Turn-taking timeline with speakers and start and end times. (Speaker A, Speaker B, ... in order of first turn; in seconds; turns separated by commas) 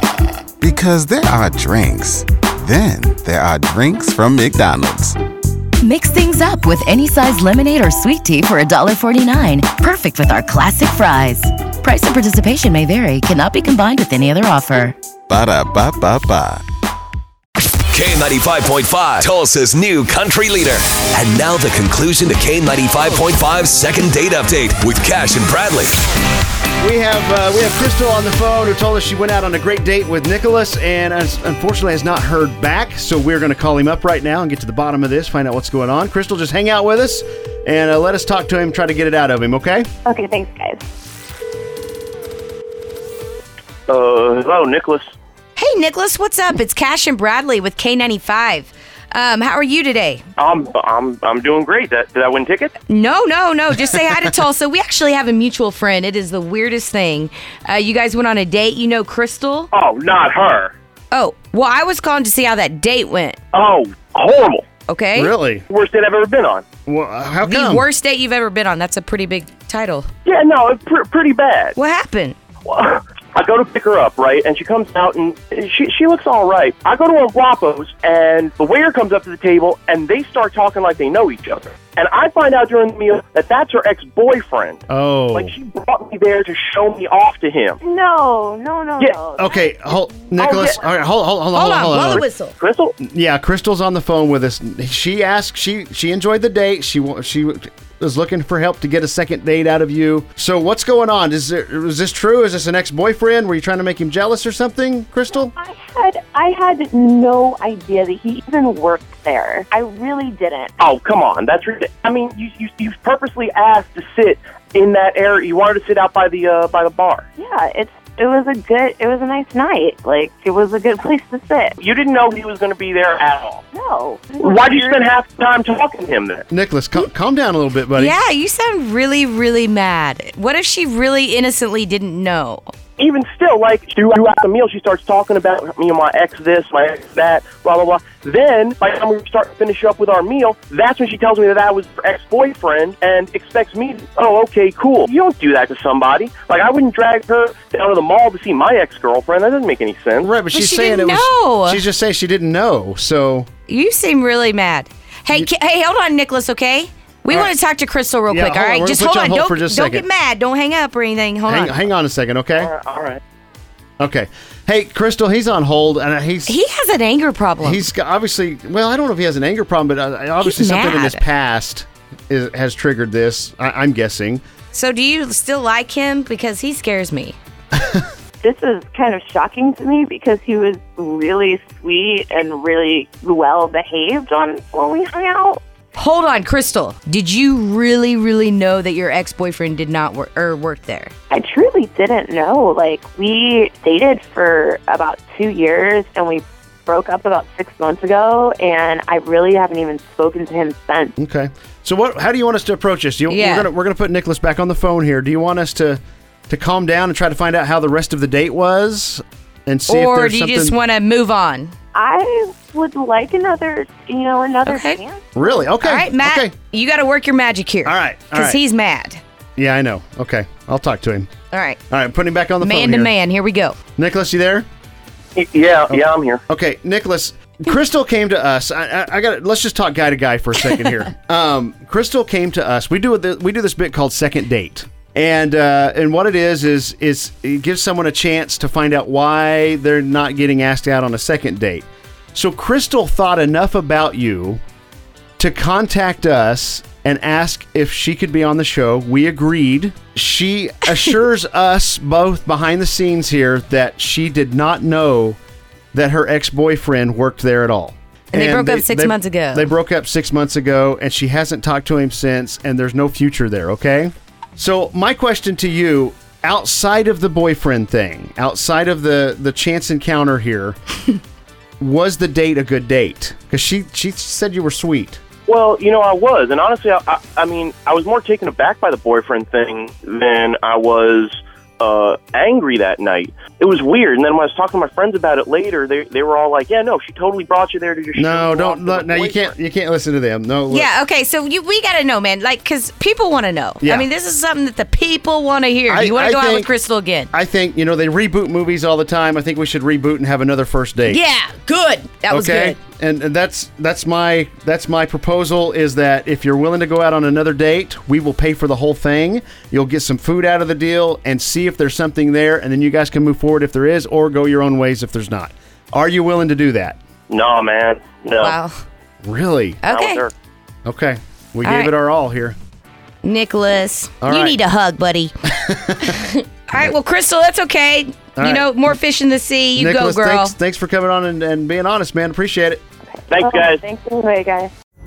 Speaker A: 0.6-5.2, Speaker B: 5.8-14.9, Speaker A: 15.3-16.6, Speaker C: 17.9-25.9, Speaker D: 26.8-39.9, Speaker E: 40.0-40.8, Speaker F: 43.9-45.1, Speaker G: 45.5-50.2, Speaker F: 50.4-52.7, Speaker G: 52.9-59.7, Speaker F: 59.7-60.7, Speaker G: 61.1-63.4, Speaker F: 63.5-64.6, Speaker G: 64.9-65.3, Speaker D: 65.1-65.7, Speaker F: 65.7-66.7, Speaker D: 66.8-67.8, Speaker G: 67.4-70.1, Speaker F: 70.2-71.8, Speaker G: 71.8-72.3, Speaker F: 72.7-87.8, Speaker D: 84.9-85.5, Speaker E: 87.8-90.2, Speaker D: 89.3-92.2, Speaker F: 90.4-90.8, Speaker G: 91.5-92.6, Speaker F: 92.6-92.9, Speaker D: 93.0-105.5, Speaker E: 105.5-110.8, Speaker F: 110.8-117.2, Speaker E: 117.4-121.8, Speaker F: 121.8-123.6, Speaker E: 123.7-125.1, Speaker F: 124.4-126.5, Speaker D: 126.5-128.2, Speaker G: 127.9-132.7, Speaker F: 133.0-150.3, Speaker D: 150.2-153.5, Speaker G: 150.5-151.8, Speaker G: 153.7-161.8, Speaker D: 157.3-157.5, Speaker D: 158.3-160.1, Speaker D: 161.5-162.7, Speaker F: 162.6-163.2, Speaker D: 164.0-166.5, Speaker G: 166.4-167.8, Speaker D: 167.6-174.4, Speaker G: 170.4-171.2, Speaker G: 174.7-177.3, Speaker D: 177.7-178.0, Speaker E: 178.4-185.6, Speaker G: 185.9-191.1, Speaker E: 191.3-201.1, Speaker D: 201.2-210.8, Speaker G: 203.3-203.7, Speaker G: 209.9-211.7, Speaker E: 211.9-215.3, Speaker G: 214.7-215.0, Speaker D: 215.3-216.5, Speaker G: 215.8-219.2, Speaker D: 217.8-218.6, Speaker D: 219.6-221.3, Speaker G: 221.5-221.8, Speaker D: 221.9-223.1, Speaker G: 222.6-223.8, Speaker D: 223.9-224.7, Speaker F: 225.3-226.4, Speaker D: 225.9-244.6, Speaker D: 245.4-255.4, Speaker D: 255.9-270.8, Speaker G: 258.3-259.7, Speaker D: 271.8-275.2, Speaker F: 275.5-289.5, Speaker D: 288.1-290.9, Speaker G: 290.7-297.3, Speaker D: 293.8-294.1, Speaker D: 295.9-296.7, Speaker D: 297.3-301.2, Speaker G: 301.1-302.8, Speaker D: 302.3-317.0, Speaker F: 317.3-318.5, Speaker G: 318.4-318.8, Speaker D: 319.2-319.8, Speaker G: 319.8-320.2, Speaker F: 319.9-320.3, Speaker D: 320.8-322.6, Speaker G: 321.6-321.9, Speaker G: 323.2-325.3, Speaker D: 324.2-324.6, Speaker D: 325.4-326.2, Speaker G: 326.0-330.5, Speaker D: 328.4-328.9, Speaker D: 329.7-332.8, Speaker E: 333.1-334.7, Speaker F: 333.3-333.8